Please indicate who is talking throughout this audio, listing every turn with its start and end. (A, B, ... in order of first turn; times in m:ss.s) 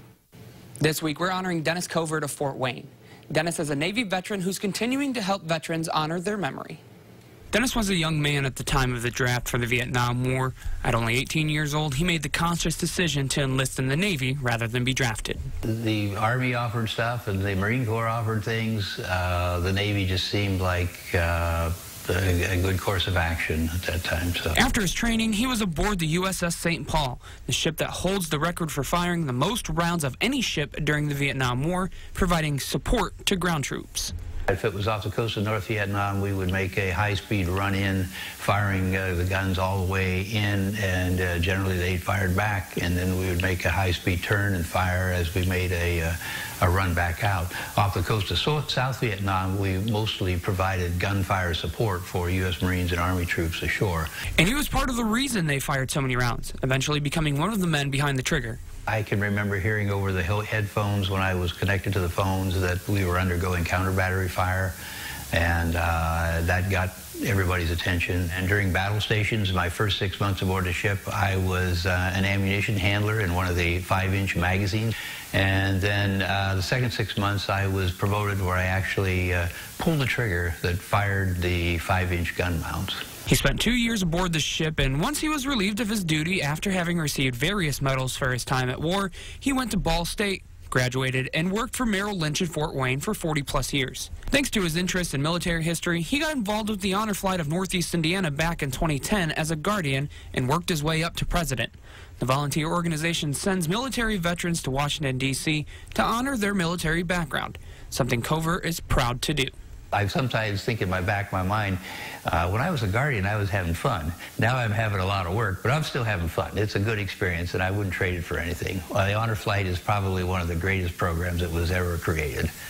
0:00.8-0:06.8 A
0:07.5-0:15.5 A
0:15.6-0:24.6 B
0:24.5-0:34.1 A
0:34.5-0:54.1 B
0:54.4-0:58.6 A
0:58.9-1:04.8 B
1:05.3-1:23.0 B
1:23.2-1:49.5 A
1:49.9-2:02.5 B